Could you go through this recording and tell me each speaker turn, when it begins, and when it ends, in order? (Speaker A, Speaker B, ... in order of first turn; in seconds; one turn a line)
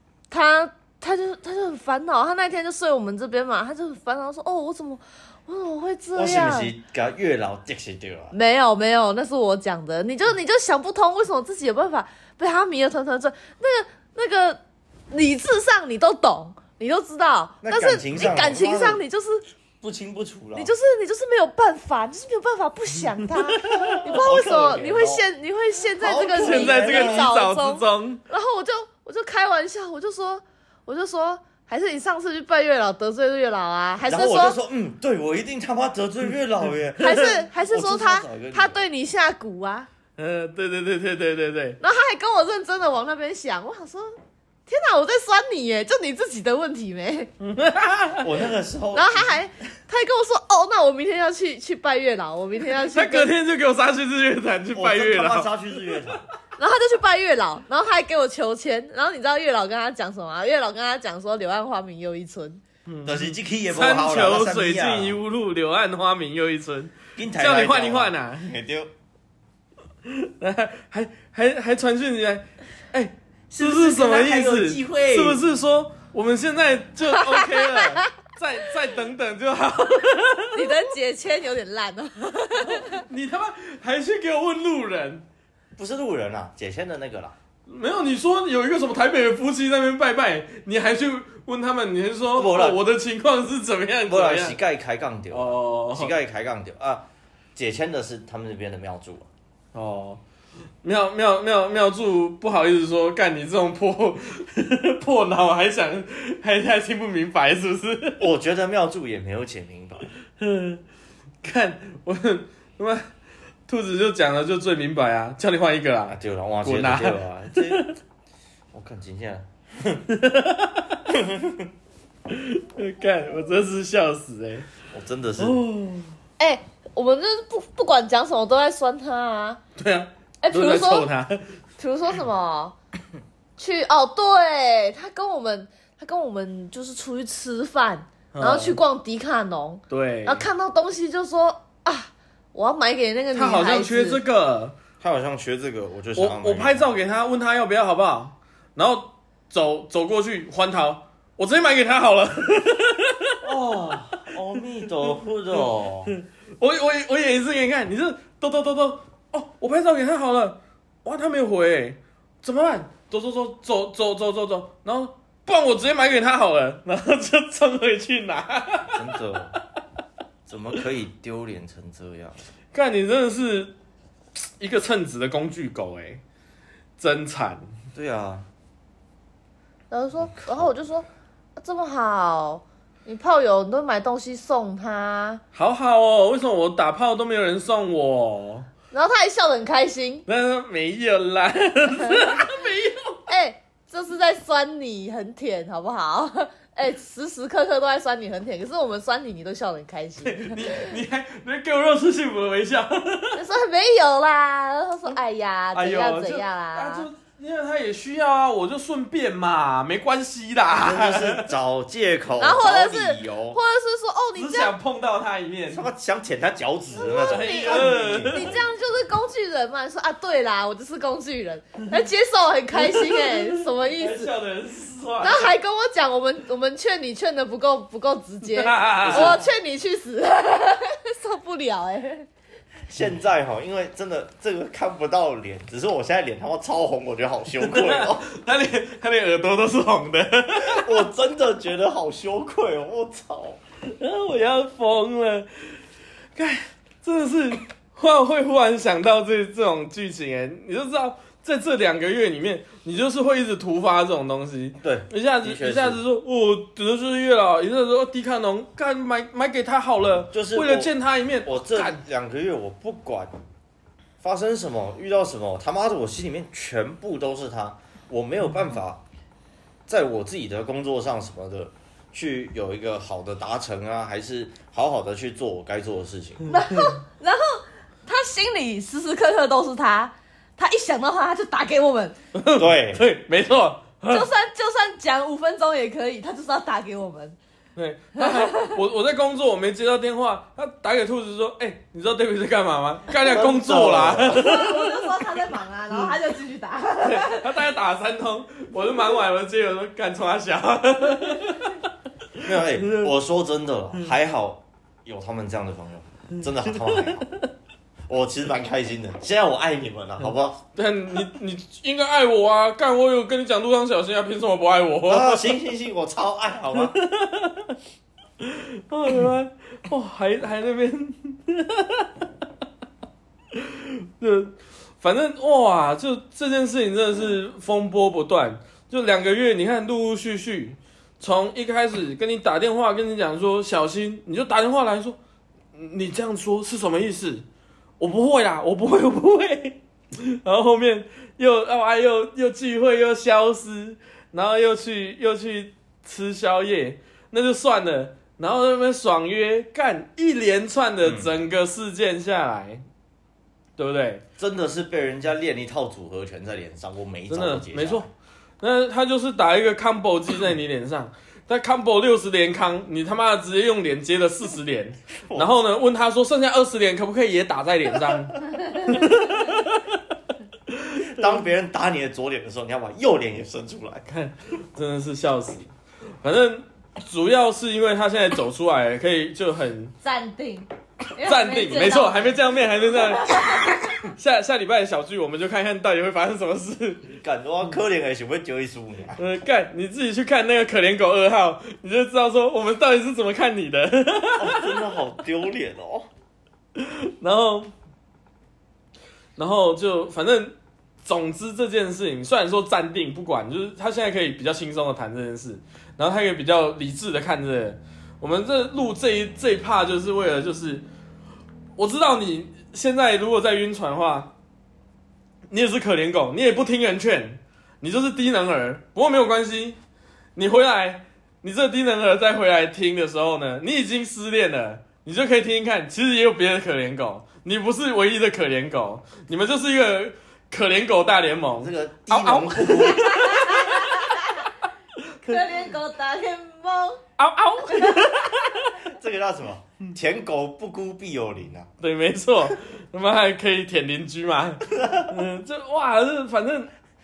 Speaker A: 0.3-6.7
Speaker B: 6.1-8.3
Speaker A: 8.3-14.6
Speaker A: 15.1-19.4
Speaker B: 17.6-19.0
Speaker B: 19.8-20.7
Speaker A: 20.5-34.6
Speaker C: 23.5-24.0
Speaker B: 23.6-25.2
Speaker B: 26.0-27.3
Speaker C: 26.3-28.2
Speaker B: 34.1-38.8
Speaker A: 37.0-39.9
Speaker C: 40.2-41.8
Speaker A: 41.8-44.1
Speaker A: 44.7-47.3
Speaker C: 47.4-48.3
Speaker B: 48.2-49.4
Speaker A: 48.9-53.3
Speaker C: 52.7-55.8
Speaker B: 54.7-56.2
Speaker A: 56.6-62.6
Speaker C: 62.9-68.5
Speaker B: 63.0-65.2
Speaker B: 67.2-68.9
Speaker C: 70.1-80.8
Speaker B: 73.5-75.4
Speaker A: 77.4-78.0
Speaker A: 80.5-83.0
Speaker C: 82.5-85.2
Speaker B: 85.8-87.3
Speaker C: 87.7-94.6
Speaker B: 92.3-92.8
Speaker B: 94.1-99.3
Speaker C: 95.3-96.1
Speaker C: 99.7-100.2
Speaker C: 100.8-108.2
Speaker B: 108.2-110.1
Speaker C: 110.4-110.8
Speaker C: 111.4-113.1
Speaker C: 113.7-117.9
Speaker B: 116.1-117.9
Speaker B: 118.7-120.0
Speaker C: 120.1-121.1
Speaker B: 121.1-121.7
Speaker C: 122.3-124.7
Speaker B: 124.9-125.6
Speaker C: 125.4-126.1
Speaker A: 126.4-129.6
Speaker C: 129.8-131.5
Speaker A: 130.4-131.1
Speaker A: 131.8-132.8
Speaker A: 133.6-144.2
Speaker C: 138.3-138.8
Speaker C: 139.9-140.4
Speaker C: 143.3-144.8
Speaker B: 145.0-146.9
Speaker C: 146.2-153.4
Speaker B: 153.4-156.1
Speaker C: 156.1-169.2
Speaker B: 168.9-169.6
Speaker B: 170.4-172.4
Speaker C: 172.7-173.7
Speaker C: 174.6-176.2
Speaker C: 177.0-177.7
Speaker B: 177.9-178.4
Speaker A: 179.9-185.4
Speaker B: 180.2-180.7
Speaker C: 185.5-188.7
Speaker A: 188.9-190.2
Speaker C: 190.3-193.2
Speaker A: 191.9-192.5
Speaker A: 193.3-200.9
Speaker C: 200.2-203.4
Speaker A: 203.3-207.1
Speaker C: 205.7-211.5
Speaker B: 210.7-213.6
Speaker A: 212.4-214.7
Speaker C: 214.3-215.8
Speaker B: 215.7-218.6
Speaker A: 216.9-224.3
Speaker C: 217.2-218.5
Speaker C: 222.7-225.5
Speaker A: 225.2-232.3
Speaker C: 228.4-229.4
Speaker B: 229.0-229.5
Speaker B: 232.9-238.3
Speaker C: 237.6-241.0
Speaker B: 240.6-243.6
Speaker C: 243.8-245.8
Speaker C: 246.3-262.0
Speaker B: 254.8-256.0
Speaker B: 260.3-263.3
Speaker B: 264.2-269.0
Speaker B: 269.9-276.5
Speaker A: 276.5-282.1
Speaker C: 282.3-284.2
Speaker B: 282.5-283.0
Speaker A: 284.1-287.4
Speaker C: 287.8-295.1
Speaker A: 288.2-288.8
Speaker B: 293.2-294.7
Speaker A: 294.3-297.6
Speaker C: 297.0-301.9
Speaker B: 302.4-307.2
Speaker C: 302.4-303.1
Speaker C: 306.7-307.4
Speaker B: 308.1-310.6
Speaker C: 310.8-315.6
Speaker B: 315.1-316.9
Speaker C: 316.8-317.8
Speaker C: 318.4-322.2
Speaker C: 323.5-335.2
Speaker C: 335.7-337.4
Speaker C: 338.0-352.8
Speaker B: 351.0-351.3
Speaker C: 353.8-354.2
Speaker B: 354.4-358.1
Speaker C: 357.3-358.1
Speaker C: 358.6-370.0
Speaker C: 370.7-371.4
Speaker B: 371.0-374.1
Speaker C: 374.1-375.7
Speaker C: 376.2-379.9
Speaker A: 380.0-383.8
Speaker C: 381.2-387.1
Speaker B: 387.0-389.2
Speaker C: 389.2-394.8
Speaker B: 394.4-396.1
Speaker C: 396.8-397.7
Speaker C: 399.4-410.8
Speaker C: 411.8-414.3
Speaker C: 415.5-419.8
Speaker C: 420.4-434.1
Speaker B: 431.6-433.3
Speaker A: 433.1-434.4
Speaker A: 435.2-437.0
Speaker C: 437.2-438.8
Speaker A: 437.7-438.1
Speaker B: 438.8-441.7
Speaker C: 441.8-446.7
Speaker B: 444.8-445.1